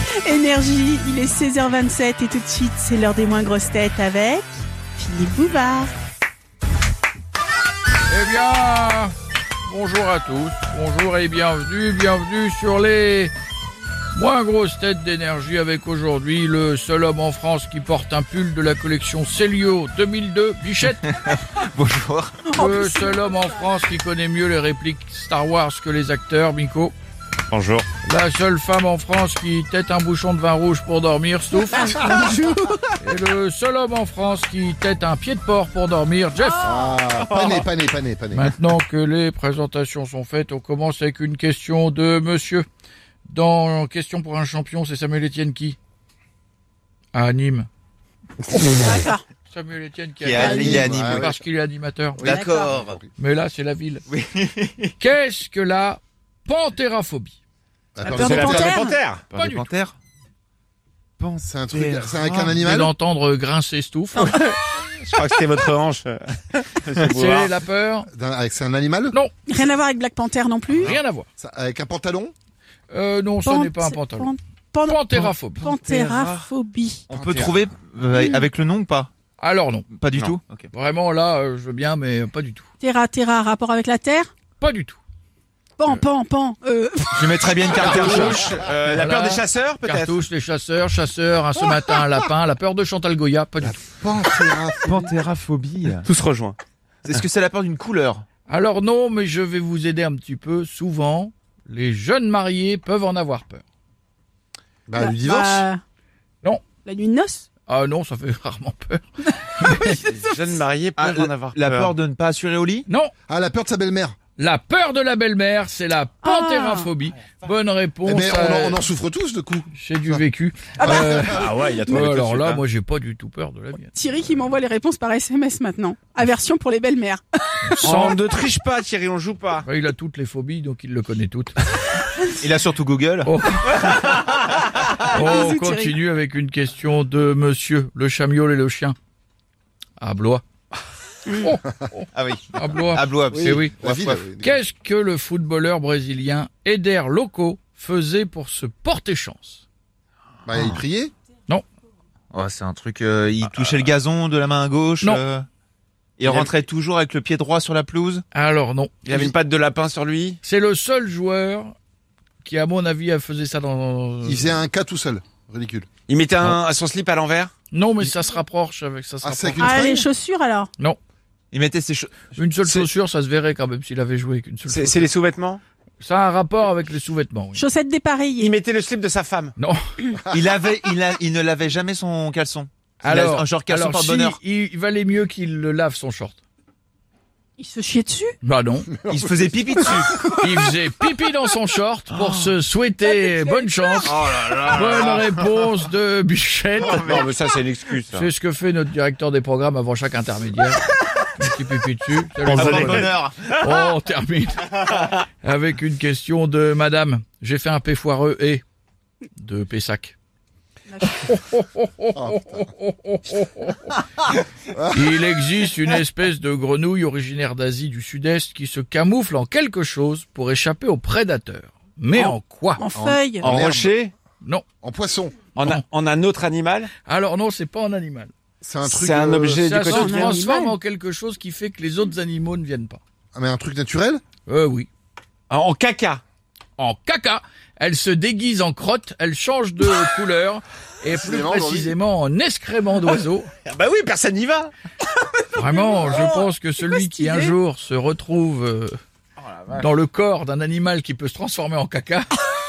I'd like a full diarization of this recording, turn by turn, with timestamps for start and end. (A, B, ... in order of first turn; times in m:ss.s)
0:00.2-0:05.9 A
0:08.1-0:09.1 B
0:09.6-0:13.3 B
0:14.1-0:21.0 B
0:21.0-0:22.5 C
0:22.5-0:23.5 A
0:22.6-0:26.9 B
0:27.5-0:27.8 D
0:27.5-0:27.8 C
0:28.0-0:32.0 B
0:31.7-0:32.9 A
0:33.0-0:36.8 B
0:36.6-0:38.5 E
0:38.3-0:42.6 B
0:43.3-0:45.8 B
0:47.1-0:47.7 B
0:48.7-0:49.2 A
0:49.5-0:52.3 B
0:50.2-0:51.4 C
0:50.3-0:51.3 E
0:50.4-0:50.9 A
0:52.2-0:53.0 C
0:52.2-0:52.7 A
0:52.2-0:53.1 E
0:53.2-0:54.0 B
0:54.1-0:54.9 C
0:55.0-0:57.4 B
0:58.0-0:58.8 E
0:58.0-0:59.0 A
0:58.1-0:59.2 D
0:59.3-0:59.9 C
0:59.3-0:59.7 B
1:01.2-1:02.6 C
1:01.3-1:02.9 E
1:02.5-1:04.4 B
1:04.2-1:07.5 D
1:07.0-1:08.1 B
1:08.1-1:09.2 E
1:09.5-1:11.0 A
1:10.7-1:11.3 B
1:11.4-1:12.3 E
1:12.9-1:14.3 B
1:13.4-1:17.0 A
1:14.8-1:15.7 B
1:15.6-1:16.4 C
1:17.1-1:19.1 C
1:17.1-1:17.6 E
1:18.1-1:18.4 A
1:19.4-1:19.9 B
1:19.9-1:20.7 C
1:20.7-1:22.7 B
1:22.8-1:24.3 A
1:24.6-1:25.0 B
1:25.8-1:28.0 A
1:27.1-1:30.1 C
1:27.8-1:29.4 D
1:27.8-1:33.8 B
1:28.2-1:28.5 E
1:33.6-1:35.1 E
1:34.8-1:38.2 C
1:38.5-1:43.6 B
1:44.9-1:45.7 E
1:45.0-1:45.8 A
1:46.8-1:47.4 A
1:47.7-1:50.0 B
1:49.9-1:51.8 D
1:50.6-1:52.8 C
1:52.9-1:53.1 B
1:53.3-1:54.2 E
1:54.4-1:58.8 B
1:56.2-1:56.9 A
1:58.0-2:00.2 E
1:59.7-2:03.9 B
2:00.8-2:02.1 A
2:00.8-2:01.5 E
2:01.4-2:02.6 C
2:03.9-2:07.4 A
2:07.6-2:08.2 B
2:07.8-2:09.6 D
2:08.2-2:08.9 C
2:09.6-2:11.5 B
2:12.3-2:13.3 C
2:13.2-2:14.0 B
2:15.0-2:19.0 B
2:15.1-2:15.9 A
2:20.0-2:20.4 B
2:21.3-2:23.7 B
2:22.1-2:24.2 C
2:23.3-2:24.6 E
2:24.4-2:29.6 B
2:30.4-2:31.1 E
2:30.5-2:30.8 C
2:32.3-2:35.4 C
2:36.2-2:38.2 C
2:36.2-2:36.5 E
2:38.3-2:39.3 B
2:39.1-2:40.3 C
2:39.1-2:40.4 D
2:40.4-2:41.8 B
2:42.4-2:44.6 B
2:44.2-2:45.9 E
2:46.1-2:47.5 D
2:46.4-2:47.2 C
2:47.7-2:50.0 B
2:49.2-2:50.0 E
2:49.6-2:50.7 A
2:51.5-2:52.9 C
2:52.3-2:55.1 B
2:54.7-2:55.6 D
2:56.0-2:57.6 B
2:57.5-2:58.5 A
2:58.4-2:59.5 D
3:00.3-3:04.4 C
3:03.0-3:06.4 B
3:07.6-3:08.3 A
3:08.4-3:08.9 B
3:08.9-3:10.5 E
3:09.1-3:10.2 C
3:10.4-3:17.2 B
3:12.1-3:12.5 C
3:13.0-3:14.2 A
3:14.0-3:15.4 C
3:16.8-3:18.3 C
3:18.1-3:20.8 B
3:21.4-3:28.6 B
3:22.4-3:23.4 C
3:22.6-3:23.0 D
3:29.4-3:30.1 B
3:31.0-3:33.9 B
3:32.1-3:32.7 E
3:34.7-3:35.1 E
3:34.9-3:42.8 B
3:42.1-3:43.5 A
3:42.9-3:43.9 E
3:43.4-3:44.1 D
3:44.8-3:45.4 E
3:45.6-3:46.8 D
3:46.1-3:46.8 C
3:47.0-3:48.3 B
3:48.6-3:49.7 E
3:48.8-3:50.3 D
3:49.6-3:53.0 B
3:49.8-3:50.7 A
3:53.3-3:54.2 E
3:54.4-3:54.9 B
3:55.5-3:56.2 D
3:56.8-4:03.5 B
4:01.1-4:01.9 E
4:03.6-4:04.7 D
4:05.5-4:09.0 B
4:05.7-4:07.5 A
4:09.4-4:09.8 C
4:09.7-4:12.4 B